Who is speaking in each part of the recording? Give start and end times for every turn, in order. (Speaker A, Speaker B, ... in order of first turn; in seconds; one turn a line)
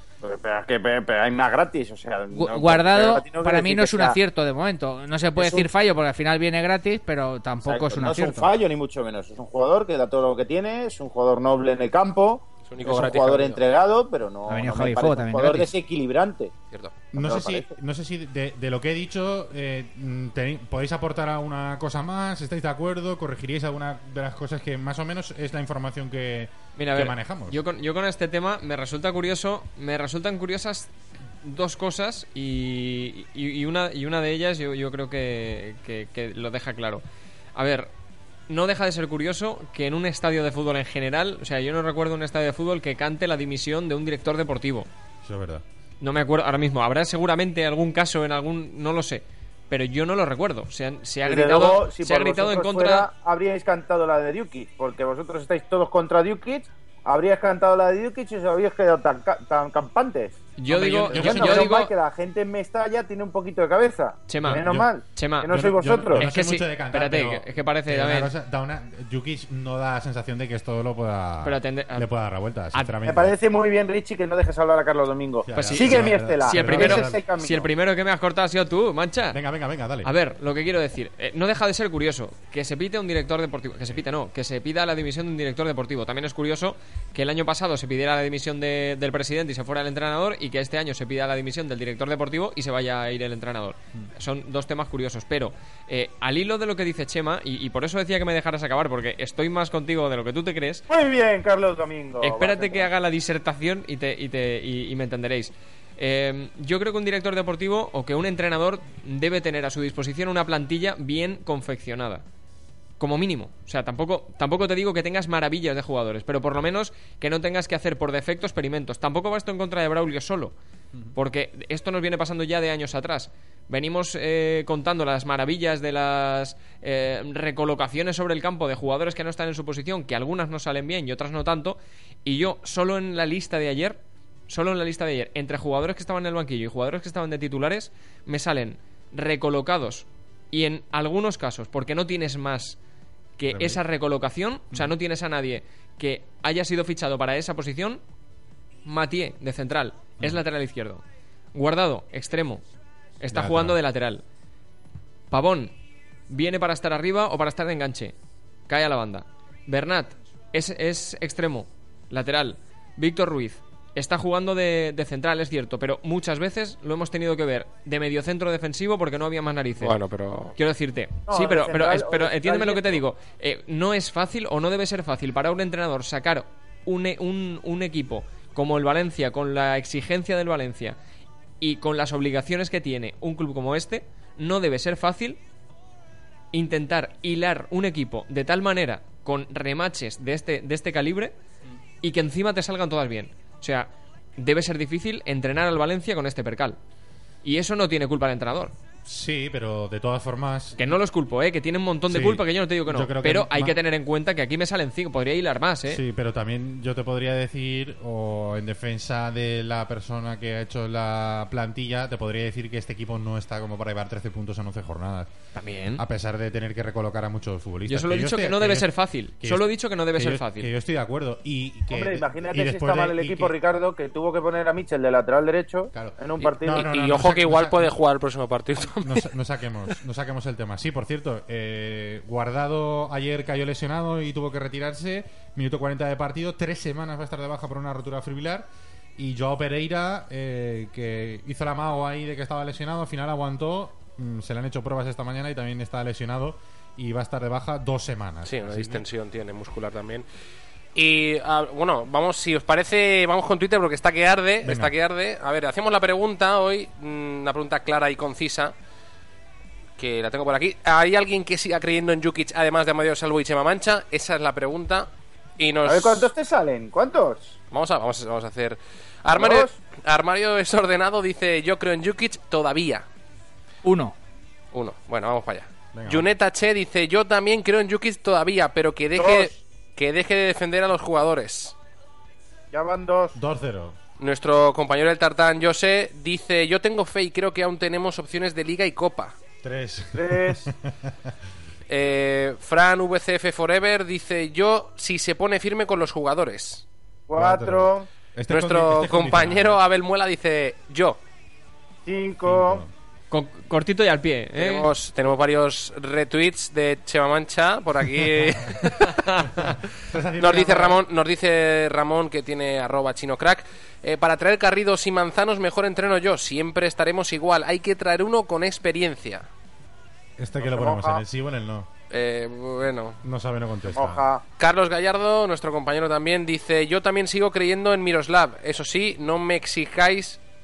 Speaker A: 0.2-4.2
Speaker B: 2.3-8.5
Speaker A: 5.4-5.7
Speaker A: 7.6-16.5
Speaker C: 12.7-13.6
Speaker B: 14.5-15.7
Speaker C: 16.7-17.1
Speaker D: 17.1-27.6
Speaker A: 17.1-17.6
Speaker E: 26.8-30.9
Speaker E: 31.4-37.0
Speaker E: 37.6-37.9
Speaker E: 38.5-44.9
Speaker D: 45.2-45.6
Speaker E: 46.0-53.1
Speaker A: 51.2-66.3
Speaker E: 60.6-61.9
Speaker D: 60.7-61.8
Speaker E: 64.3-68.3
Speaker D: 64.5-64.9
Speaker D: 65.5-73.4
Speaker E: 71.4-72.1
Speaker A: 73.0-77.7
Speaker D: 75.5-77.2
Speaker E: 75.5-79.4
Speaker D: 79.3-80.1
Speaker E: 80.0-100.8
Speaker A: 100.9-102.9
Speaker E: 102.2-112.2
Speaker E: 113.0-120.5
Speaker E: 121.1-142.8
Speaker E: 143.4-148.0
Speaker D: 143.5-143.8
Speaker E: 148.8-151.0
Speaker E: 151.5-152.6
Speaker E: 153.2-154.2
Speaker D: 153.3-153.8
Speaker E: 155.3-155.7
Speaker E: 156.3-158.1
Speaker E: 158.7-170.0
Speaker C: 169.8-170.5
Speaker E: 170.6-181.0
Speaker A: 171.3-173.0
Speaker E: 181.6-185.4
Speaker E: 186.5-191.3
Speaker E: 192.0-196.8
Speaker E: 197.4-198.7
Speaker D: 199.1-200.8
Speaker E: 200.8-206.0
Speaker D: 202.1-203.8
Speaker D: 205.9-215.3
Speaker E: 215.6-216.0
Speaker D: 215.9-218.9
Speaker E: 217.9-220.7
Speaker D: 219.4-223.5
Speaker A: 221.9-226.8
Speaker D: 225.9-227.9
Speaker C: 226.7-229.3
Speaker D: 229.0-249.0
Speaker C: 248.4-250.2
Speaker C: 250.9-258.7
Speaker D: 254.6-254.9
Speaker C: 260.0-266.3
Speaker A: 265.9-267.6
Speaker C: 267.7-273.1
Speaker A: 269.3-269.8
Speaker B: 273.8-274.1
Speaker C: 274.7-281.8
Speaker D: 275.9-276.3
Speaker A: 279.2-279.6
Speaker A: 282.7-283.4
Speaker D: 283.4-284.0
Speaker C: 284.2-289.4
Speaker D: 289.6-291.3
Speaker A: 290.1-290.7
Speaker C: 291.9-296.9
Speaker A: 297.3-298.1
Speaker D: 297.4-299.8
Speaker C: 298.5-301.2
Speaker A: 302.1-302.8
Speaker D: 302.4-302.9
Speaker E: 303.3-304.9
Speaker C: 304.6-309.8
Speaker D: 308.4-308.8
Speaker D: 309.6-311.0
Speaker C: 310.4-319.5
Speaker D: 320.4-321.9
Speaker A: 320.6-321.2
Speaker C: 322.1-323.2
Speaker D: 323.2-324.3
Speaker A: 323.9-324.4
Speaker C: 324.6-330.4